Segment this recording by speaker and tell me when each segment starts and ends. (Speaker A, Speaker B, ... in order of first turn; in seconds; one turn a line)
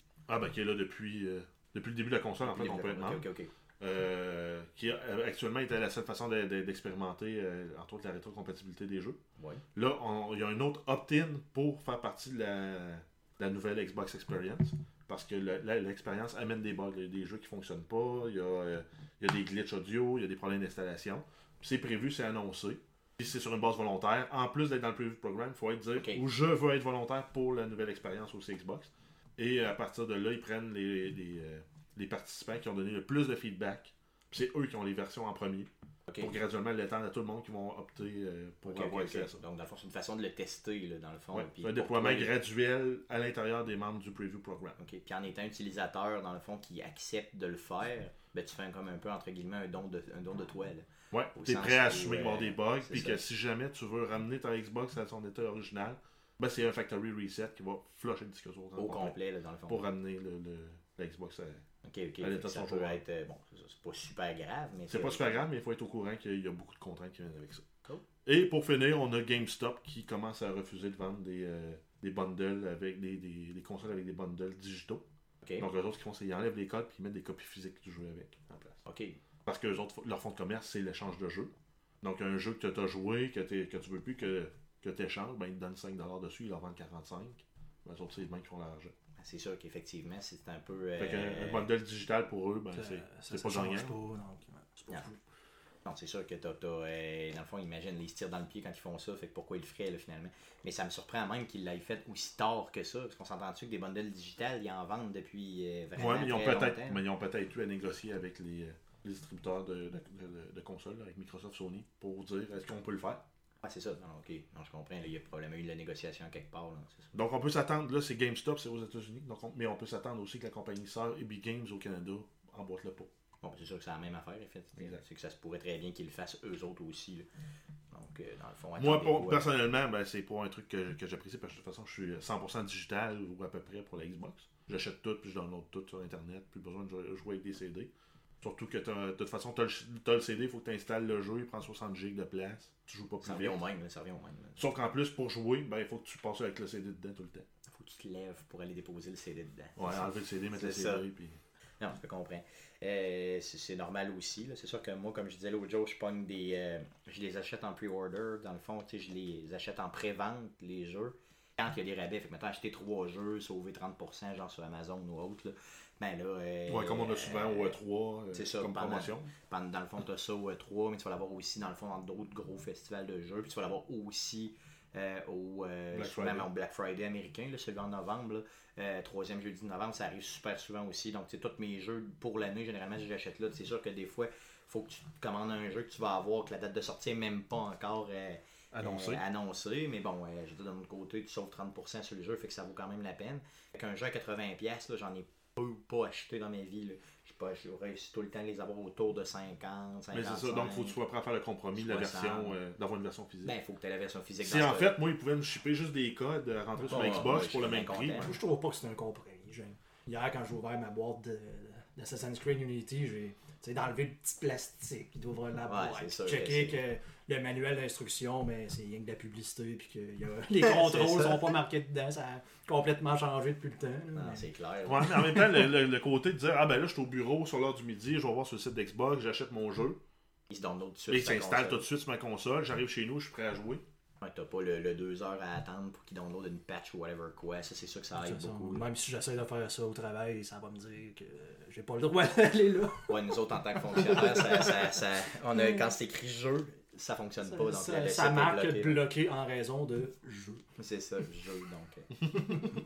Speaker A: 0.3-3.2
Speaker B: 2.4-3.5
Speaker A: 3.8-9.2
Speaker B: 9.4-9.6
Speaker A: 9.8-35.7
Speaker B: 26.0-26.2
Speaker B: 36.1-36.4
Speaker A: 36.2-39.4
Speaker B: 38.7-42.3
Speaker A: 41.3-44.8
Speaker B: 44.8-53.2
Speaker A: 51.1-59.2
Speaker B: 58.8-59.8
Speaker A: 59.7-61.6
Speaker B: 61.8-65.4
Speaker A: 62.2-63.0
Speaker A: 64.9-67.7
Speaker A: 68.2-75.0
Speaker A: 75.6-78.8
Speaker B: 78.8-79.2
Speaker A: 79.5-88.9
Speaker B: 89.2-91.7
Speaker A: 91.0-94.0
Speaker C: 92.8-95.2
Speaker B: 95.8-107.0
Speaker A: 106.0-113.2
Speaker B: 113.6-117.1
Speaker A: 117.1-123.1
Speaker B: 123.4-127.3
Speaker A: 124.8-125.0
Speaker B: 127.9-129.5
Speaker A: 128.8-143.6
Speaker B: 143.2-144.6
Speaker A: 144.6-147.4
Speaker B: 147.7-151.0
Speaker A: 149.8-151.4
Speaker B: 151.8-167.8
Speaker A: 166.7-169.3
Speaker B: 168.3-201.0
Speaker A: 175.9-176.5
Speaker A: 188.7-189.2
Speaker A: 200.1-203.5
Speaker B: 201.8-202.6
Speaker B: 203.4-204.9
Speaker A: 204.4-208.3
Speaker B: 206.9-208.3
Speaker C: 208.2-224.5
Speaker B: 215.7-216.8
Speaker B: 220.6-221.5
Speaker B: 224.1-225.6
Speaker A: 224.9-230.0
Speaker B: 230.5-231.8
Speaker A: 231.1-233.8
Speaker B: 234.2-238.8
Speaker C: 238.2-243.3
Speaker B: 243.1-249.1
Speaker C: 243.9-244.9
Speaker C: 247.5-250.6
Speaker B: 250.8-252.5